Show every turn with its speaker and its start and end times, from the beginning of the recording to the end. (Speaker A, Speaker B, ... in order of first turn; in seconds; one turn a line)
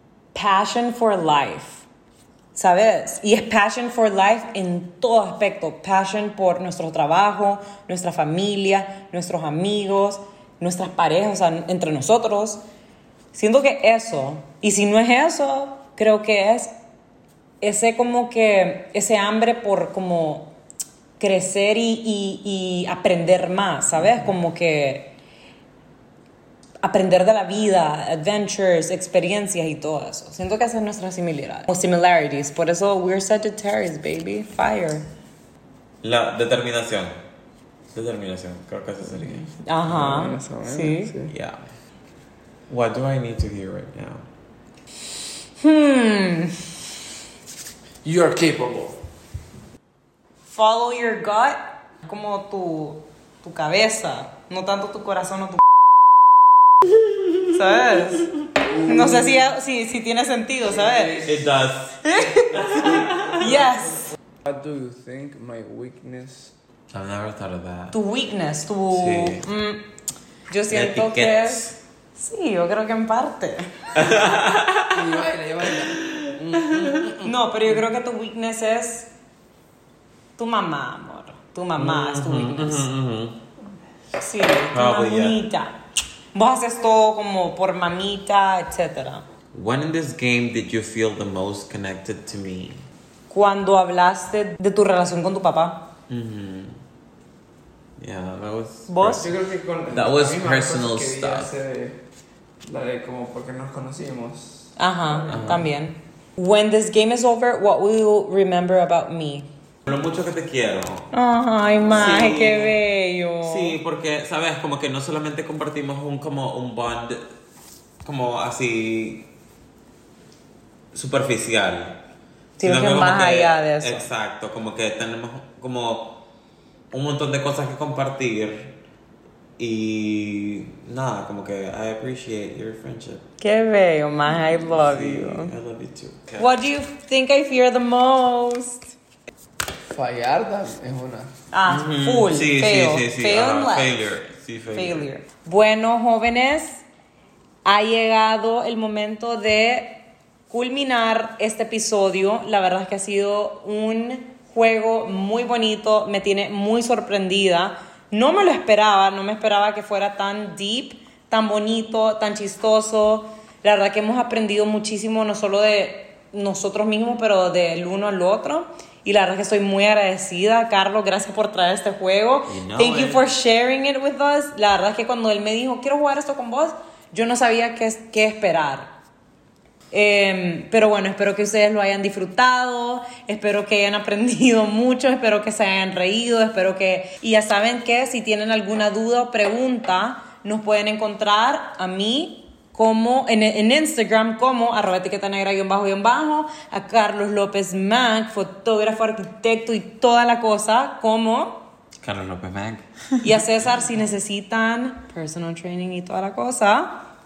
Speaker A: 0.3-1.8
Speaker A: 2.5-12.6
Speaker A: 13.3-16.7
Speaker A: 17.6-20.6
Speaker A: 21.2-25.1
Speaker A: 26.8-35.0
Speaker B: 36.0-37.1
Speaker B: 37.9-39.5
Speaker C: 39.1-41.3
Speaker A: 39.6-41.1
Speaker B: 41.3-41.6
Speaker B: 42.7-44.3
Speaker A: 45.6-46.7
Speaker C: 48.0-49.0
Speaker A: 50.5-55.6
Speaker A: 57.5-61.2
Speaker C: 58.6-59.4
Speaker C: 60.6-61.4
Speaker B: 61.2-63.6
Speaker A: 62.0-64.1
Speaker C: 64.4-66.5
Speaker B: 66.9-68.0
Speaker A: 67.9-69.9
Speaker B: 68.9-69.5
Speaker A: 70.5-74.0
Speaker B: 70.7-71.8
Speaker B: 74.0-75.0
Speaker C: 74.9-77.4
Speaker B: 75.8-77.0
Speaker A: 77.2-79.1
Speaker A: 80.4-82.9
Speaker B: 81.8-83.4
Speaker A: 84.2-85.8
Speaker B: 84.7-85.4
Speaker A: 86.3-89.2
Speaker B: 89.5-92.8
Speaker A: 93.3-95.9
Speaker B: 96.1-96.8
Speaker B: 98.0-99.3
Speaker A: 98.9-99.3
Speaker C: 99.1-102.0
Speaker B: 99.9-101.5
Speaker C: 102.6-105.5
Speaker A: 104.8-109.5
Speaker B: 105.3-105.7
Speaker B: 109.9-111.1
Speaker A: 111.1-113.8
Speaker B: 111.9-112.8
Speaker B: 113.4-117.2
Speaker B: 118.0-119.3
Speaker B: 120.9-122.0
Speaker A: 122.6-124.1
Speaker B: 122.6-126.2
Speaker B: 126.9-128.7
Speaker B: 129.6-133.2
Speaker A: 133.4-135.5
Speaker B: 134.6-136.5
Speaker A: 136.4-138.9
Speaker C: 139.8-141.3
Speaker A: 141.5-144.1
Speaker B: 141.7-145.1
Speaker A: 144.7-146.8
Speaker A: 147.6-178.9
Speaker B: 172.5-173.2
Speaker A: 179.9-201.6
Speaker B: 202.0-202.9
Speaker A: 203.2-207.1